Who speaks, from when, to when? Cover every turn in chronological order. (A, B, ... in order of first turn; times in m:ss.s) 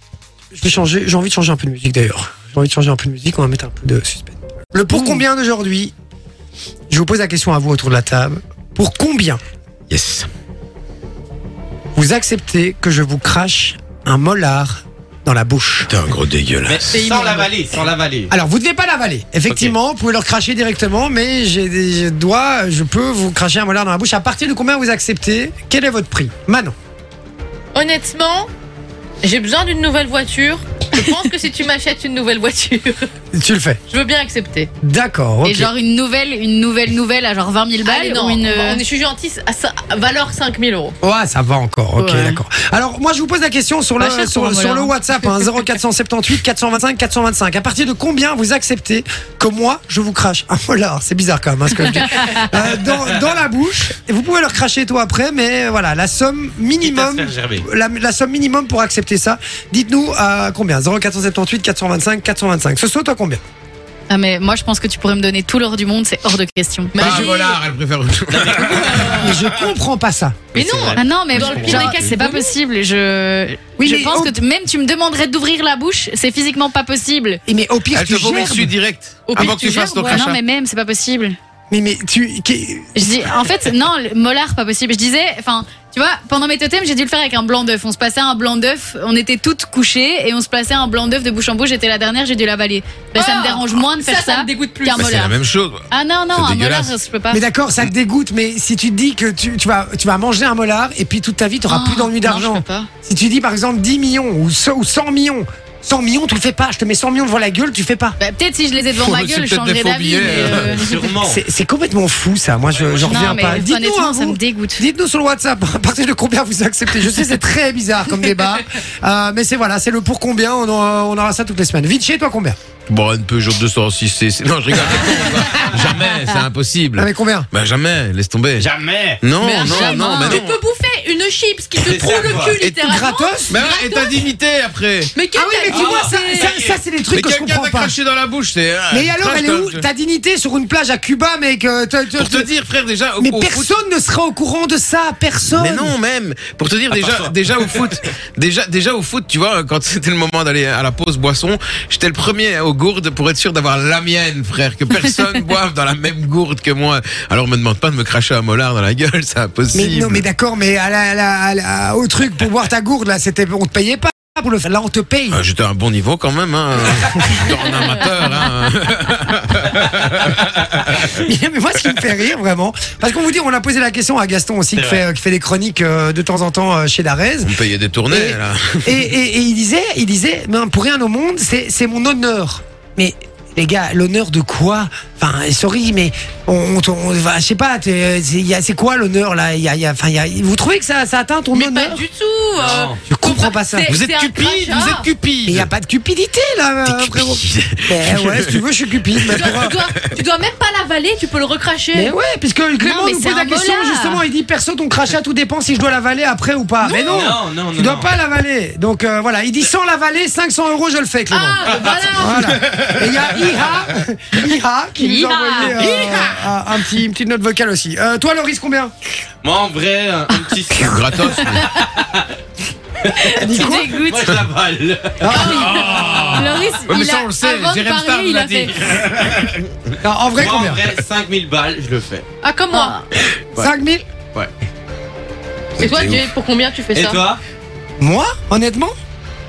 0:00.5-0:05.9 A
0:06.9-0:09.4 A
0:09.9-0:10.3 B
0:11.9-0:15.9 A
0:15.9-0:17.0 B
0:16.7-0:18.3 C
0:16.9-0:17.6 D
0:18.3-0:26.7 A
0:19.5-0:19.8 C
0:27.7-0:28.5 D
0:29.2-0:33.1 D
0:33.3-0:33.8 A
0:33.9-0:34.7 D
0:34.8-0:35.7 A
0:35.4-0:38.8 E
0:37.8-0:40.9 D
0:41.0-1:03.4 A
0:42.0-0:42.4 E
0:44.0-0:44.9 E
0:52.6-0:52.9 C
0:56.8-0:57.6 C
1:04.1-1:07.1 E
1:06.9-1:07.6 D
1:07.0-1:09.4 B
1:08.3-1:09.4 C
1:09.2-1:10.5 A
1:10.5-1:12.5 D
1:10.5-1:12.1 C
1:10.9-1:17.4 E
1:11.4-1:11.7 B
1:13.8-1:14.4 A
1:17.5-1:18.7 A
1:17.9-1:20.4 B
1:19.3-1:20.3 D
1:20.0-1:21.4 E
1:21.7-1:23.3 A
1:22.9-1:35.4 E
1:33.1-1:35.1 D
1:34.9-1:36.9 B
1:35.9-1:37.4 E
1:37.3-1:48.2 A
1:41.6-1:42.9 E
1:48.2-1:51.1 E
1:48.9-1:50.8 B
1:50.4-1:51.4 C
1:51.2-2:02.6 A
1:52.7-1:53.6 C
1:53.0-1:54.8 E
2:02.9-2:10.6 B
2:05.8-2:06.0 C
2:07.0-2:07.5 A
2:08.6-2:09.3 C
2:09.4-2:14.3 D
2:11.8-2:12.7 C
2:12.0-2:13.5 A
2:13.5-2:15.1 B
2:15.1-2:16.6 D
2:15.3-2:17.9 A
2:15.7-2:16.8 C
2:17.1-2:19.8 B
2:18.9-2:22.5 A
2:22.1-2:23.8 B
2:23.2-2:25.9 A
2:25.5-2:40.2 B
2:26.9-2:27.9 C
2:39.7-2:45.4 A
2:45.3-2:51.0 B
2:51.0-2:57.5 A
2:54.7-2:55.0 C
2:57.4-2:59.1 B
2:58.1-3:12.0 A
3:11.5-3:15.1 D
3:12.6-3:13.0 C
3:13.1-3:13.9 A
3:13.9-3:15.7 B
3:15.5-3:19.7 A
3:16.8-3:18.6 B
3:19.2-3:20.2 B
3:19.3-3:22.1 D
3:21.9-3:38.9 A
3:22.8-3:24.2 E
3:26.8-3:28.1 C
3:26.9-3:27.2 D
3:31.3-3:32.5 D
3:32.7-3:33.6 B
3:35.0-3:35.7 E
3:35.6-3:36.6 B
3:39.4-3:40.9 C
3:40.7-3:41.8 B
3:41.3-3:41.8 E
3:41.8-3:42.2 C
3:43.0-3:45.5 C
3:43.1-3:43.9 A
3:43.4-3:44.5 E
3:45.2-3:45.9 A
3:45.3-3:46.2 D
3:45.3-3:49.6 B
3:45.5-3:48.8 E
3:50.0-3:50.9 A
3:50.3-3:52.2 C
3:52.4-3:53.0 D
3:52.7-3:53.0 E
3:53.6-3:54.0 A
3:55.8-3:56.3 B
3:55.8-3:57.3 D
3:56.9-3:57.4 C
3:58.0-3:58.9 A